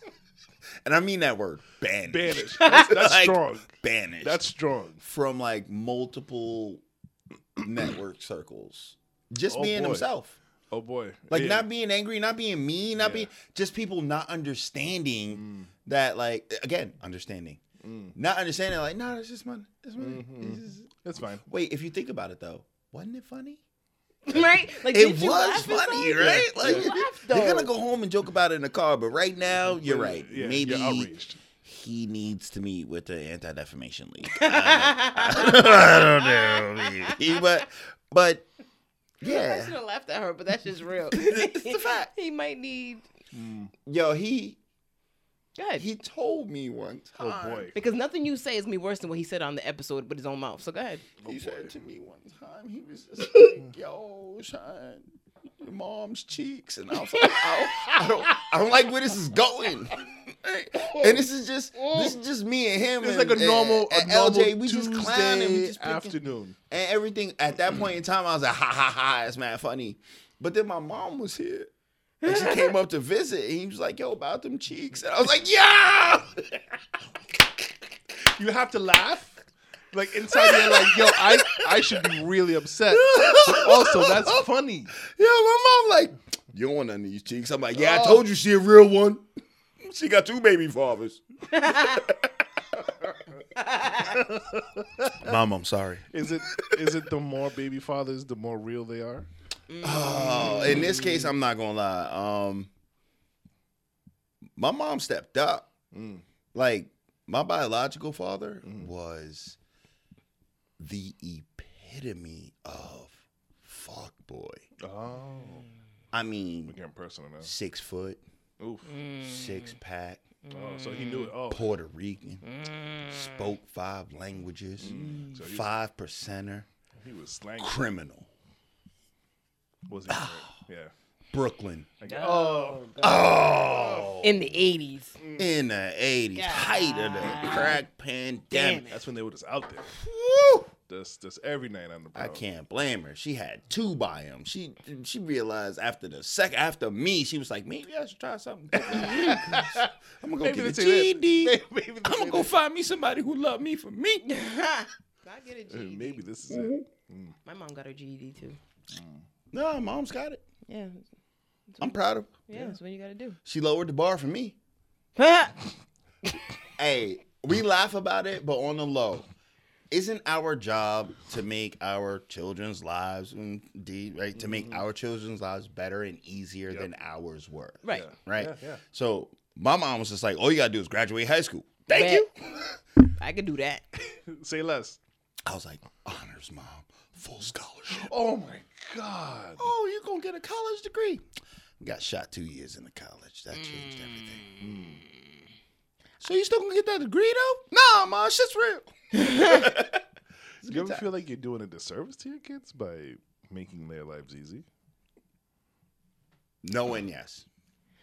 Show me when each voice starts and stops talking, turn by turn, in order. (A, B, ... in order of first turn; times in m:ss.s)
0:00.8-0:04.4 A
0:02.1-0:05.0 B
0:05.0-0:06.8 A
0:07.6-0:10.4 A
0:09.5-0:10.1 B
0:10.7-0:11.7 B
0:11.3-0:17.6 A
0:13.0-0:13.3 B
0:15.3-0:15.7 B
0:17.8-0:18.1 B
0:18.1-0:20.9 A
0:20.0-0:21.4 B
0:21.4-0:23.6 A
0:24.2-0:27.7 C
0:24.3-0:38.5 A
0:26.2-0:26.9 B
0:29.6-0:31.4 B
0:34.2-0:37.6 C
0:39.2-0:39.8 A
0:39.2-0:43.0 C
0:41.1-0:42.1 A
0:43.3-0:43.7 B
0:43.9-0:44.6 A
0:45.6-0:45.9 C
0:45.8-0:47.7 A
0:47.2-0:47.8 B
0:47.7-0:51.1 C
0:51.2-0:51.7 B
0:51.2-0:55.0 A
0:55.6-1:06.2 A
0:57.2-0:58.4 B
1:00.8-1:01.2 B
1:01.8-1:02.2 B
1:03.0-1:06.6 B
1:06.7-1:11.7 A
1:12.2-1:12.7 C
1:12.2-1:16.8 A
1:18.2-1:25.0 B
1:20.3-1:21.9 A
1:22.9-1:24.4 A
1:25.0-1:29.2 A
1:27.8-1:28.2 B
1:29.8-1:32.3 A
1:31.5-1:32.0 C
1:33.6-1:34.1 C
1:34.0-1:35.3 B
1:35.2-1:36.9 A
1:36.1-1:39.3 B
1:39.7-1:41.3 C
1:39.8-1:42.7 A
1:44.6-1:45.7 A
1:45.9-1:46.2 B
1:46.5-1:49.6 A
1:48.6-1:48.9 B
1:50.8-1:54.6 A
1:54.8-1:55.7 B
1:56.1-1:56.8 A
1:56.6-1:57.5 B
1:57.4-1:58.2 A
1:58.6-1:59.0 B
1:58.9-1:59.7 C
1:59.2-2:00.2 A
2:00.5-2:01.3 C
2:00.5-2:01.7 B
2:01.5-2:02.4 A
2:02.4-2:03.4 C
2:03.0-2:06.7 A
2:04.8-2:05.7 B
2:07.0-2:07.8 B
2:07.6-2:08.3 A
2:09.9-2:10.9 B
2:10.1-2:10.4 A
2:11.3-2:11.9 A
2:12.0-2:13.0 B
2:12.0-2:13.6 C
2:13.0-2:14.5 A
2:13.6-2:14.2 B
2:14.2-2:15.2 C
2:15.2-2:15.5 B
2:15.4-2:18.9 A
2:16.3-2:17.8 C
2:18.5-2:19.0 C
2:18.9-2:20.0 B
2:19.9-2:20.7 A
2:20.9-2:22.4 B
2:22.1-2:34.2 A
2:28.7-2:32.5 B
2:34.2-2:36.2 C
2:35.7-2:37.3 B
2:36.5-2:36.8 A
2:37.4-2:38.6 C
2:38.9-2:39.2 B
2:39.5-2:40.4 A
2:40.7-2:41.0 C
2:41.7-2:43.4 C
2:41.8-2:42.3 A
2:42.5-2:42.8 B
2:43.4-2:44.6 A
2:45.2-2:45.7 C
2:46.8-2:49.3 A
2:49.9-3:02.6 A
2:54.4-2:54.8 B
2:57.8-2:58.1 C
2:57.9-2:58.8 B
3:01.9-3:02.3 C
3:03.2-3:03.8 C
3:04.2-3:05.0 B
3:05.4-3:08.1 A
3:07.9-3:09.7 B
3:09.6-3:11.2 A
3:11.8-3:14.4 A
3:13.5-3:15.2 C
3:14.6-3:15.0 B
3:16.2-3:20.0 A
3:19.1-3:19.7 C
3:20.6-3:21.1 A
3:20.6-3:24.6 B
3:26.6-3:27.4 A